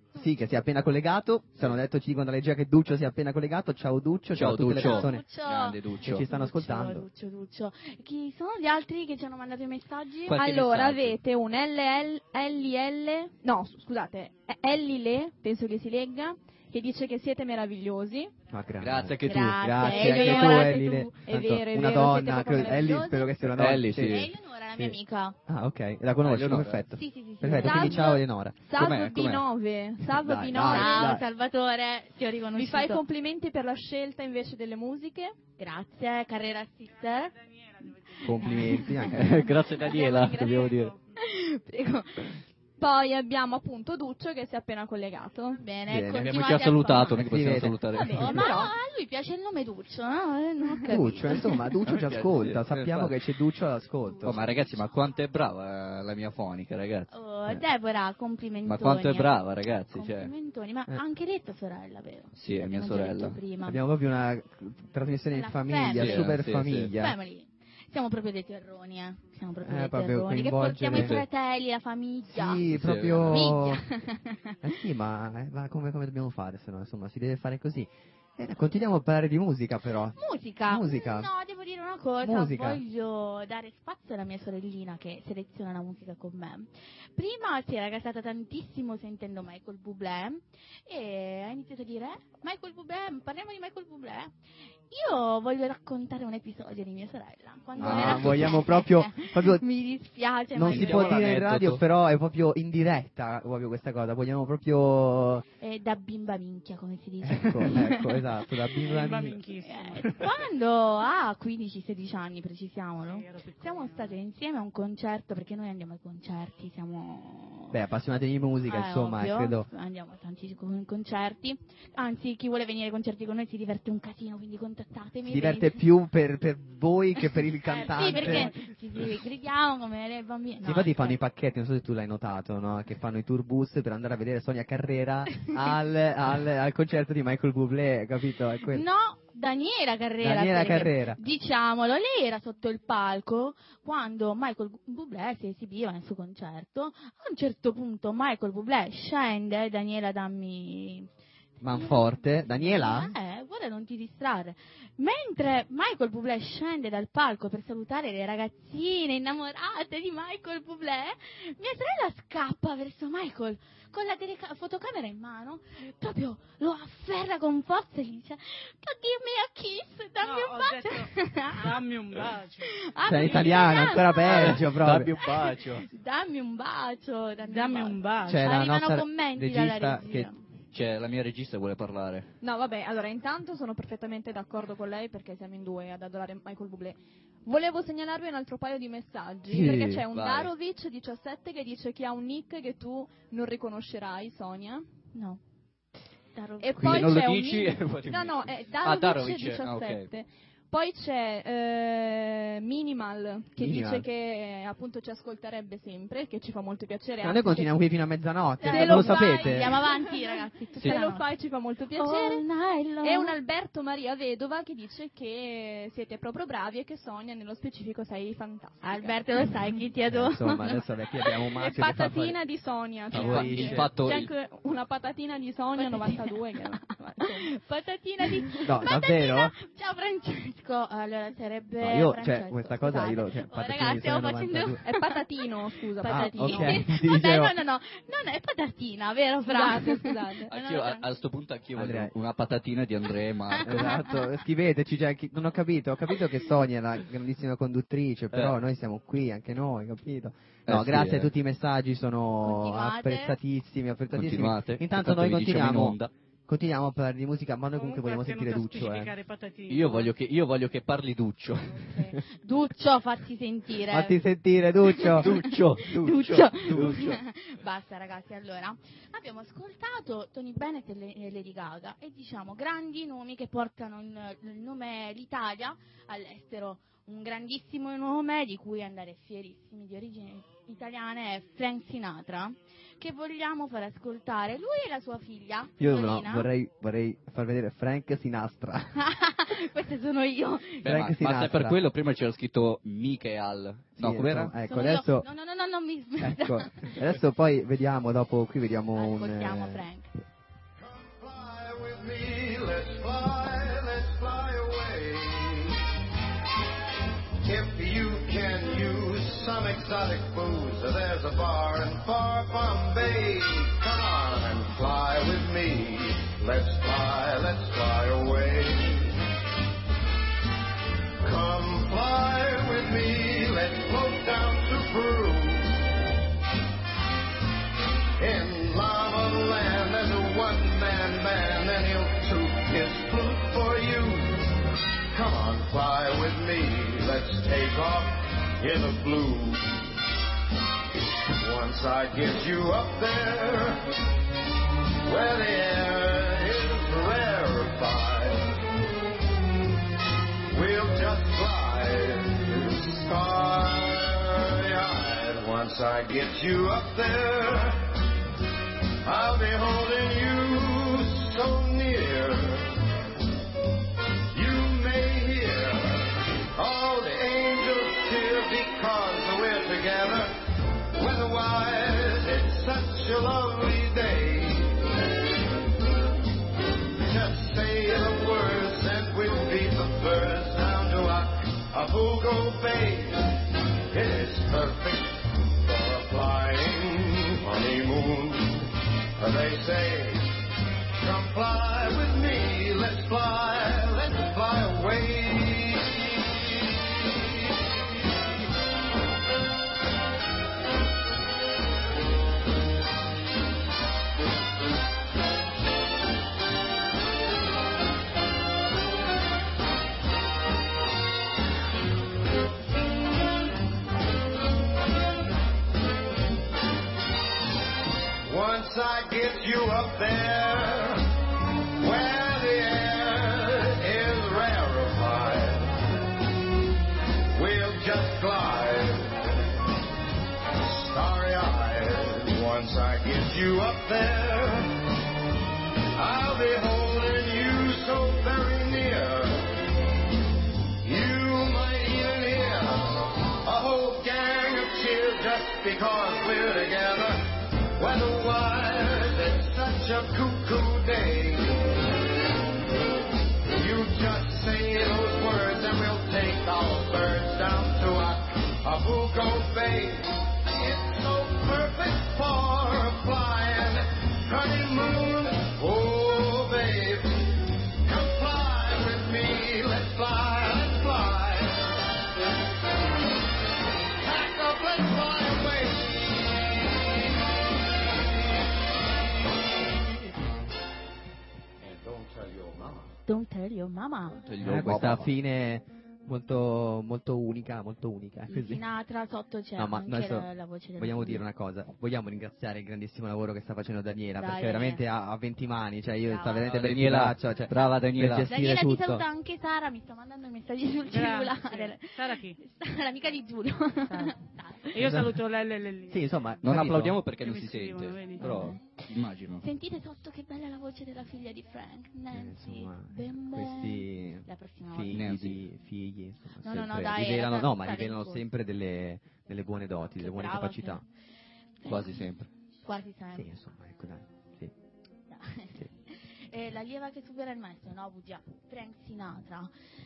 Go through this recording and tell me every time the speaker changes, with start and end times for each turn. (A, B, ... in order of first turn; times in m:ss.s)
0:00.2-0:05.2 A
0:04.3-0:06.3 B
0:04.8-0:10.4 C
0:06.0-0:07.1 A
0:10.3-0:11.2 B
0:10.3-0:18.3 D
0:18.5-0:25.0 A
0:18.8-0:19.7 B
0:19.2-0:21.2 C
0:19.8-0:23.3 D
0:23.4-0:24.3 B
0:24.0-0:25.4 C
0:25.5-0:28.6 A
0:26.2-0:26.8 B
0:26.9-0:28.1 C
0:27.5-0:31.2 D
0:28.8-0:29.5 B
0:30.0-0:31.2 A
0:30.6-0:33.0 C
0:32.5-0:35.4 D
0:35.6-0:37.3 C
0:37.0-0:39.0 E
0:38.2-0:39.5 A
0:38.4-0:42.3 C
0:39.1-0:41.0 B
0:39.6-0:41.2 E
0:42.8-0:45.6 D
0:45.6-0:47.2 C
0:45.9-0:48.4 A
0:46.2-0:48.5 B
0:47.9-0:51.6 C
0:48.0-0:48.7 D
0:50.9-0:54.6 A
0:51.9-0:53.2 B
0:54.2-0:57.1 B
0:57.1-1:03.8 C
0:58.6-1:00.3 B
1:02.4-1:03.4 B
1:03.6-1:07.2 A
1:05.3-1:06.4 C
1:06.0-1:06.9 B
1:07.0-1:12.7 C
1:09.6-1:11.2 A
1:10.9-1:11.2 B
1:12.3-1:13.8 A
1:12.7-1:13.5 B
1:13.3-1:14.6 C
1:14.6-1:21.3 A
1:20.2-1:34.3 C
1:22.2-1:22.8 A
1:34.9-1:41.1 C
1:37.8-1:39.6 A
1:37.8-1:38.6 B
1:40.5-1:45.4 A
1:40.7-1:41.8 B
1:45.6-1:48.2 C
1:47.2-1:49.4 A
1:48.8-1:50.5 E
1:49.0-1:57.8 C
1:53.0-1:54.2 E
1:57.7-1:59.7 A
1:58.7-2:05.8 C
2:05.3-2:08.6 A
2:07.4-2:11.2 C
2:07.7-2:08.5 E
2:10.6-2:18.8 A
2:18.7-2:31.1 C
2:20.2-2:21.2 A
2:31.6-2:33.2 A
2:31.7-2:51.8 C
2:50.2-2:53.4 E
2:52.7-2:54.6 C
2:53.0-2:55.2 A
2:54.2-2:55.9 B
2:55.2-3:00.4 C
2:57.5-2:58.5 E
2:58.2-3:00.3 A
3:00.7-3:02.4 B
3:02.4-3:14.9 D
3:09.5-3:10.1 A
3:10.1-3:10.5 B
3:15.1-3:15.4 C
3:16.4-3:17.0 C
3:16.6-3:27.8 D
3:16.8-3:20.1 B
3:23.6-3:24.1 A
3:27.2-3:29.9 A
3:28.6-3:31.3 C
3:28.7-3:32.4 D
3:32.0-3:33.4 C
3:33.0-3:39.2 D
3:38.8-3:41.2 C
3:40.1-3:42.4 A
3:41.6-3:47.5 D
3:43.1-3:43.9 A
3:43.1-3:44.3 B
3:45.8-3:55.2 C
3:48.6-3:49.5 A
3:51.8-3:54.8 A
3:54.8-3:56.8 D
3:56.0-4:01.1 C
3:56.0-3:57.6 A
3:59.5-4:00.5 D
4:00.5-4:04.0 B
4:01.8-4:02.1 A
4:03.6-4:04.3 C
4:03.6-4:19.2 A
4:08.3-4:08.6 B
4:10.7-4:11.3 B
4:12.4-4:13.4 C
4:14.1-4:16.1 B
4:17.7-4:20.1 E
4:19.7-4:22.0 B
4:21.7-4:24.2 C
4:23.9-4:25.6 A
4:24.9-4:46.5 C
4:25.0-4:27.2 B
4:45.8-4:49.0 A
4:49.0-4:50.9 C
4:50.8-4:51.8 A
4:50.8-4:54.5 B
4:54.0-4:55.3 A
4:54.6-4:56.9 C
4:56.2-4:59.8 A
4:59.0-5:00.1 C
5:00.8-5:05.8 F
5:07.4-5:19.2 F
5:21.2-5:25.9 F
5:28.2-5:34.5 F
5:35.1-5:39.8 F
5:41.3-5:43.9 F
5:45.0-5:48.6 F
5:50.5-5:57.9 F
5:59.0-6:02.8 F
6:04.3-6:10.3 F
6:10.9-6:14.9 F
6:17.0-6:30.4 F
6:31.0-6:36.4 F
6:58.2-7:01.2 F
7:01.7-7:05.8 F
7:07.3-7:09.4 F
7:10.5-7:14.8 F
7:16.0-7:19.6 F
7:20.8-7:27.2 F
7:27.8-7:31.7 F
7:33.5-7:51.7 F
7:54.0-7:56.0 F
8:01.6-8:02.9 F
8:03.1-8:04.2 C
8:04.2-8:05.1 B
8:04.4-8:08.6 A
8:08.3-8:11.2 C
8:09.6-8:19.1 A
8:14.2-8:14.8 C
8:16.1-8:16.5 C
8:16.5-8:18.3 B
8:18.3-8:24.8 C
8:20.9-8:22.4 E
8:23.9-8:24.2 E
8:24.7-8:26.1 E
8:24.8-8:25.2 A
8:25.9-8:27.0 A
8:26.4-8:29.4 B
8:27.1-8:28.4 E
8:28.2-8:28.6 C
8:28.2-8:28.5 A
8:29.4-8:35.0 C
8:32.1-8:40.8 A
8:34.9-8:35.4 B
8:36.4-8:38.2 C
8:40.0-8:40.8 C
8:41.6-8:42.1 C
8:41.6-8:42.3 B
8:42.6-8:43.3 C
8:43.1-8:44.5 A
8:45.1-8:49.5 C